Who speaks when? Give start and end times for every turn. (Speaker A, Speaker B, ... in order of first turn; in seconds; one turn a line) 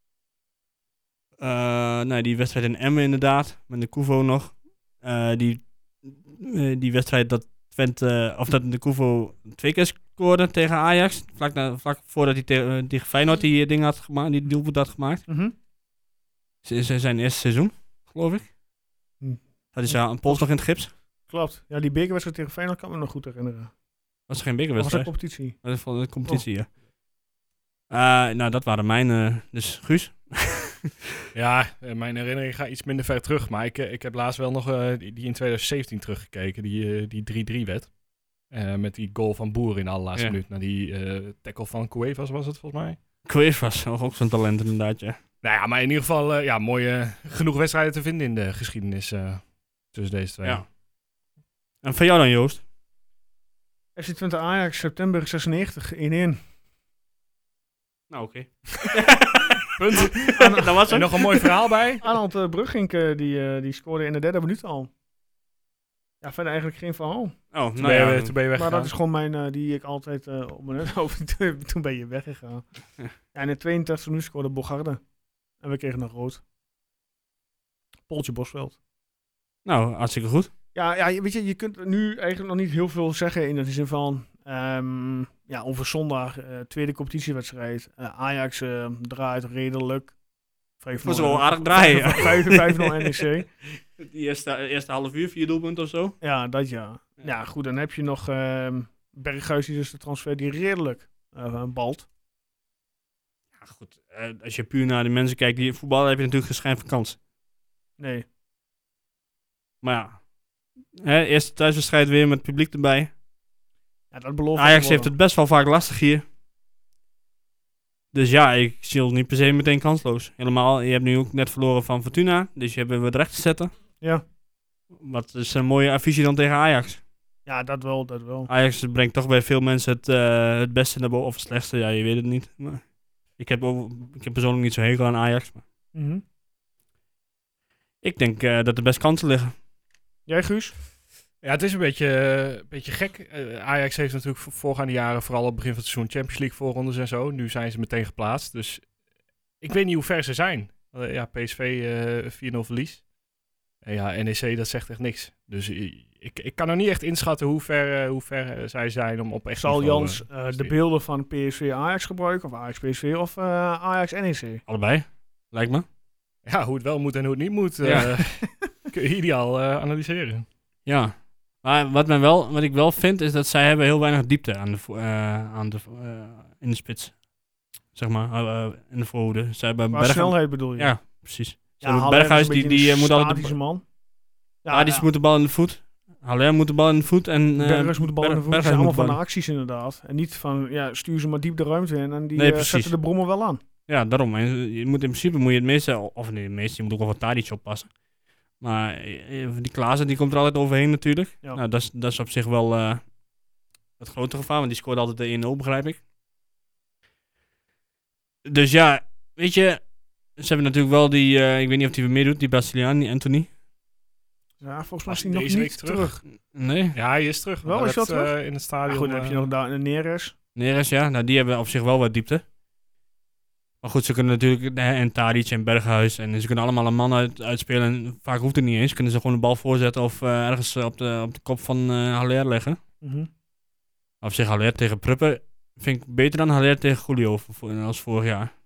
Speaker A: 1.4-15.2
Speaker B: 15.3-15.5
Speaker A: 16.6-18.5
Speaker B: 19.2-20.5
Speaker A: 19.7-20.9
Speaker B: 21.2-23.7
Speaker A: 24.3-26.7
Speaker B: 24.8-25.6
Speaker A: 27.9-30.9
Speaker C: 31.3-37.9
Speaker C: 38.5-43.0
Speaker A: 43.2-45.2
Speaker C: 45.4-50.6
Speaker A: 51.8-52.6
Speaker B: 54.0-56.4
Speaker A: 58.1-61.5
Speaker C: 59.8-62.0
Speaker B: 60.2-60.9
Speaker B: 62.0-64.9
Speaker B: 66.2-67.3
Speaker A: 67.5-68.3
Speaker C: 67.8-68.9
Speaker B: 68.5-72.6
Speaker B: 73.2-75.0
Speaker B: 75.6-76.4
Speaker B: 78.1-78.8
Speaker A: 79.6-80.5
Speaker B: 80.7-90.1
Speaker B: 90.8-93.5
Speaker A: 91.0-96.2
Speaker B: 96.2-102.1
Speaker A: 103.6-107.2
Speaker B: 108.0-108.2
Speaker A: 109.8-110.2
Speaker A: 111.0-113.1
Speaker B: 114.1-115.1
Speaker A: 114.5-116.2
Speaker A: 118.1-123.7
Speaker A: 125.0-127.0
Speaker B: 127.5-128.5
Speaker A: 128.5-132.8
Speaker A: 133.4-135.6
Speaker B: 135.9-136.2
Speaker A: 138.0-139.5
Speaker B: 140.2-140.7
Speaker C: 141.4-148.9
Speaker C: 149.6-153.0
Speaker C: 153.8-160.7
Speaker B: 159.6-164.6
Speaker A: 164.7-165.8
Speaker C: 166.4-170.4
Speaker A: 167.8-168.2
Speaker A: 170.8-177.2
Speaker A: 177.9-183.5
Speaker B: 179.9-181.1
Speaker B: 181.8-183.8
Speaker B: 184.6-185.1
Speaker A: 184.7-189.2
Speaker B: 187.6-193.6
Speaker A: 192.3-192.9
Speaker A: 193.9-197.9
Speaker A: 198.6-203.0
Speaker A: 204.0-206.0
Speaker A: 208.4-209.8
Speaker A: 210.3-213.5
Speaker B: 214.6-216.2
Speaker C: 215.1-216.1
Speaker A: 216.5-217.0
Speaker C: 216.9-219.5
Speaker B: 217.6-220.3
Speaker A: 220.6-222.4
Speaker A: 223.8-232.8
Speaker B: 233.0-233.3
Speaker A: 234.2-238.5